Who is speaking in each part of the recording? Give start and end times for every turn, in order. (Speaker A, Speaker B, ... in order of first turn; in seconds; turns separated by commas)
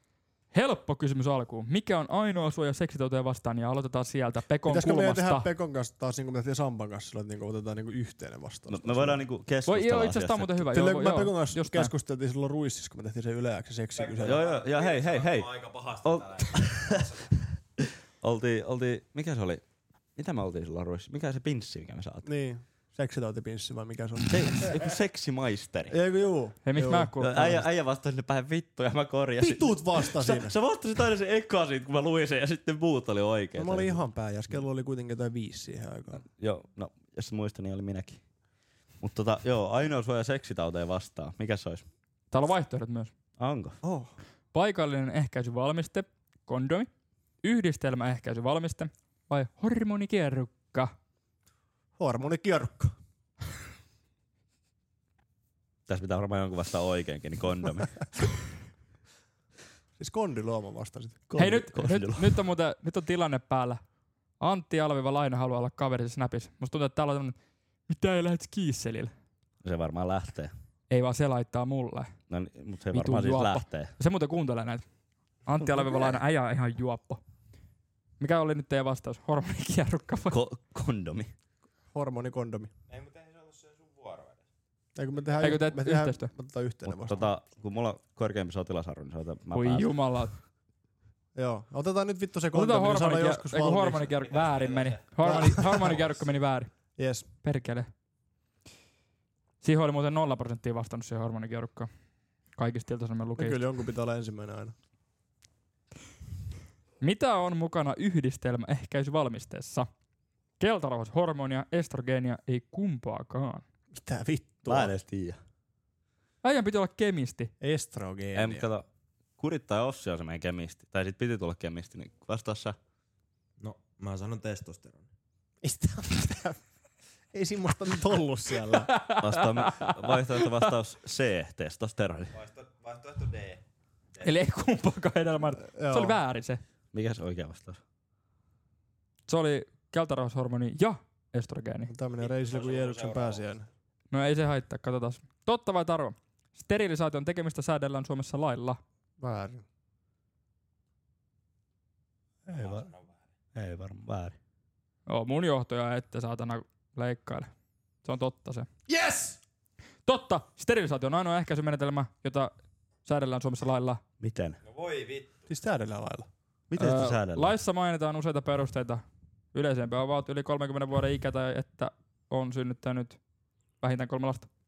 Speaker A: 0.5-5.5, Speaker B: 4.7-9.2, Speaker C: 8.7-10.6, Speaker A: 9.7-11.9, Speaker B: 10.7-14.4, Speaker D: 13.9-17.4, Speaker C: 14.2-15.5, Speaker C: 16.0-17.1, Speaker C: 18.2-19.6, Speaker C: 20.1-22.2, Speaker B: 22.2-24.7, Speaker C: 24.3-25.9, Speaker B: 25.9-27.1, Speaker A: 26.6-27.6, Speaker C: 27.2-34.0, Speaker B: 29.4-30.5, Speaker B: 33.5-36.2, Speaker C: 36.1-38.2, Speaker C: 39.0-41.8, Speaker A: 42.3-43.1, Speaker C: 43.4-43.8, Speaker B: 43.8-44.1, Speaker A: 44.5-46.9, Speaker A: 47.4-50.9, Speaker B: 52.0-52.9, Speaker C: 55.9-58.2, Speaker B: 60.0-61.2, Speaker C: 61.3-62.4, Speaker A: 61.4-63.8, Speaker A: 64.4-67.3, Speaker A: 67.9-69.1, Speaker C: 69.6-70.5, Speaker A: 70.9-72.1, Speaker C: 72.3-73.9, Speaker A: 72.9-74.8, Speaker A: 75.5-77.2, Speaker A: 78.2-80.4, Speaker C: 80.3-81.3, Speaker B: 81.9-82.7, Speaker D: 82.9-84.4, Speaker B: 85.0-87.3, Speaker D: 85.1-85.4, Speaker A: 85.4-86.3, Speaker C: 86.8-90.0, Speaker A: 89.5-90.3, Speaker B: 91.3-94.1, Speaker A: 92.5-96.7, Speaker D: 94.2-96.0, Speaker B: 95.2-96.0, Speaker B: 96.9-97.3, Speaker A: 97.4-97.9, Speaker A: 99.6-101.9, Speaker A: 102.5-103.6, Speaker B: 103.4-104.7, Speaker A: 107.0-109.9, Speaker A: 110.6-113.6, Speaker B: 113.9-114.9, Speaker C: 114.7-115.4, Speaker A: 116.4-117.5, Speaker B: 117.6-118.7, Speaker C: 118.3-118.8, Speaker C: 119.4-122.8, Speaker D: 123.6-125.1, Speaker B: 125.6-126.6, Speaker B: 127.3-128.9, Speaker A: 128.9-130.7, Speaker C: 129.2-132.3, Speaker D: 132.3-133.6, Speaker A: 134.2-136.6, Speaker B: 135.7-136.2, Speaker C: 136.9-137.8, Speaker A: 139.3-141.9, Speaker B: 141.9-143.7, Speaker D: 142.2-143.5, Speaker A: 144.1-148.8, Speaker B: 149.2-149.6, Speaker C: 152.4-152.9, Speaker D: 152.5-153.2, Speaker C: 153.5-154.4, Speaker A: 155.1-157.5, Speaker A: 158.0-158.7, Speaker B: 158.9-159.4, Speaker A: 160.1-162.5, Speaker A: 163.0-164.0, Speaker C: 164.2-164.6, Speaker D: 164.6-165.3, Speaker B: 165.5-166.3, Speaker C: 166.7-167.5, Speaker A: 166.8-169.0, Speaker A: 169.5-173.2, Speaker A: 173.8-174.5